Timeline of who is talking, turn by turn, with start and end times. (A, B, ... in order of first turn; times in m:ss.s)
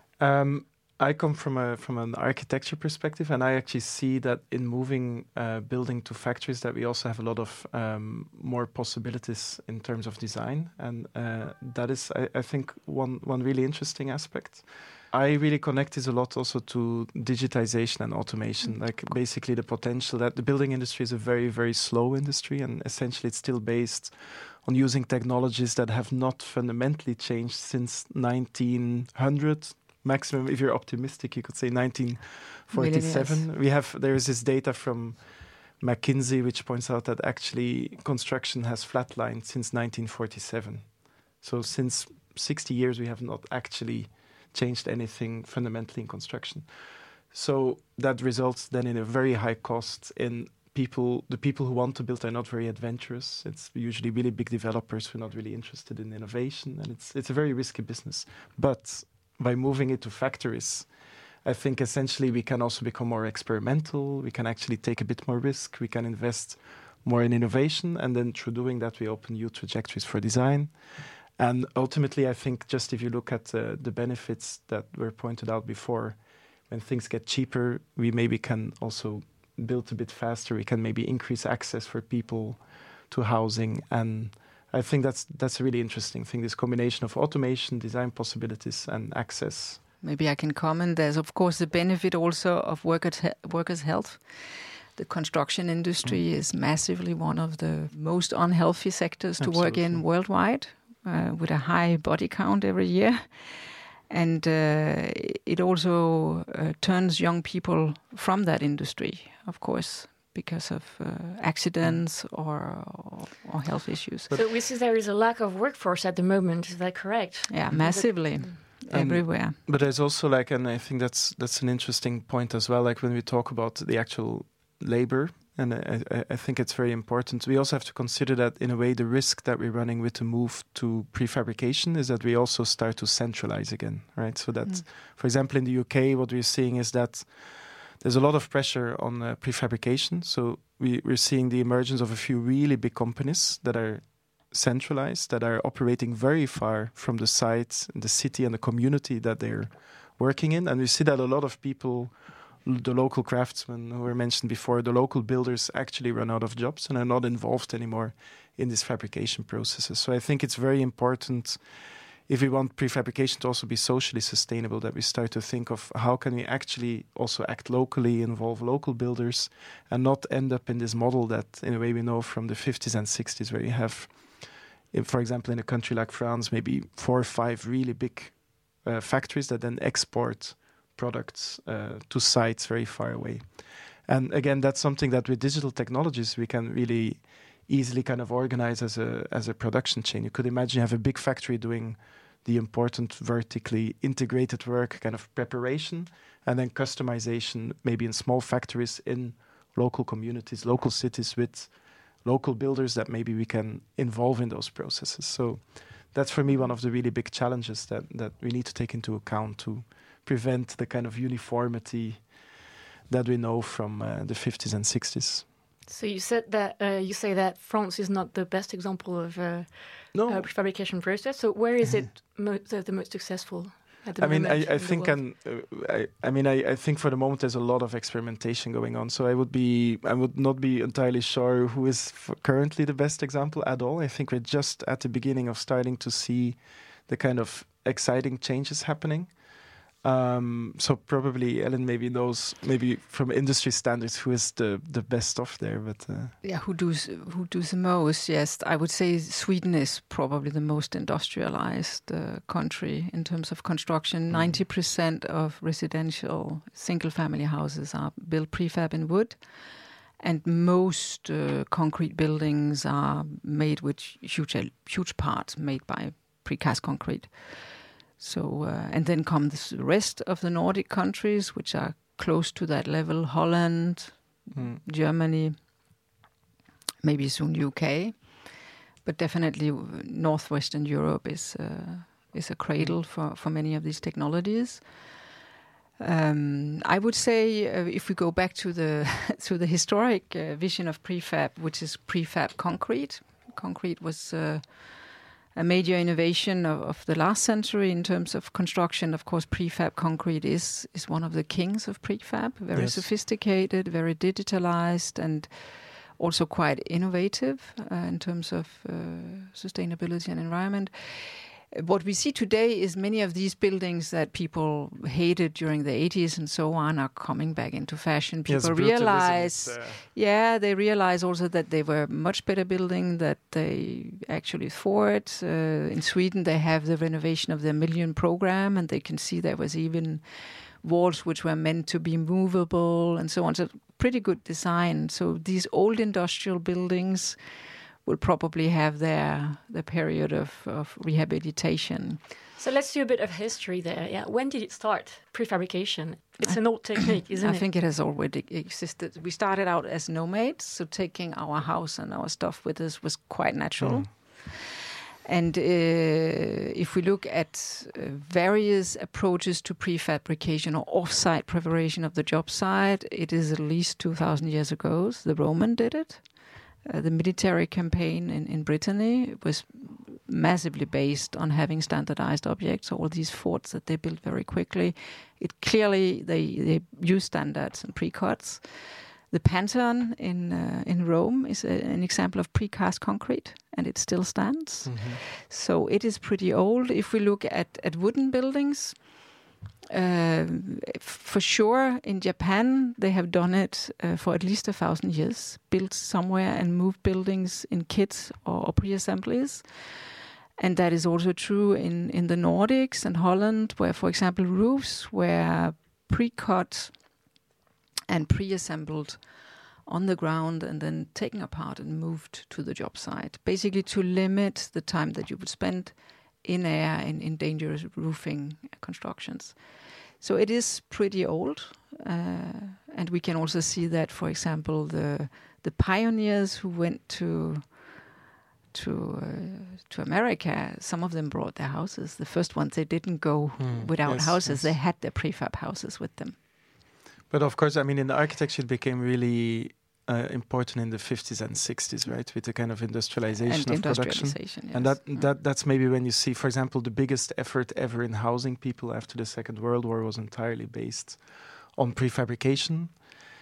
0:00.2-1:29.8 A
0:32.7-0:33.5 B
1:30.0-1:54.3 B
1:39.4-1:40.0 A
1:54.3-1:58.6 C
1:57.5-1:59.6 B
1:58.9-3:32.4 A
3:33.1-3:35.5 A
3:35.9-3:45.2 C
3:40.1-3:40.5 A
3:44.2-4:06.3 A
4:06.4-4:35.6 B
4:14.3-4:14.6 A
4:34.5-4:34.8 A
4:37.0-4:38.5 B
4:39.0-4:45.0 B
4:46.0-5:37.4 B
5:02.7-5:03.1 A
5:18.5-5:20.0 A
5:38.0-5:42.2 B
5:42.6-5:47.7 C
5:46.4-5:54.7 B
5:53.8-5:54.1 A
5:55.2-6:06.3 B
6:06.8-6:29.1 B
6:24.8-6:25.2 A
6:29.9-6:40.0 B
6:40.6-6:47.0 B
6:48.1-6:49.2 B
6:49.8-6:59.6 B
7:00.2-7:08.0 B
7:08.7-7:16.4 B
7:13.6-7:14.8 A
7:17.3-7:33.1 A
7:23.4-7:25.3 B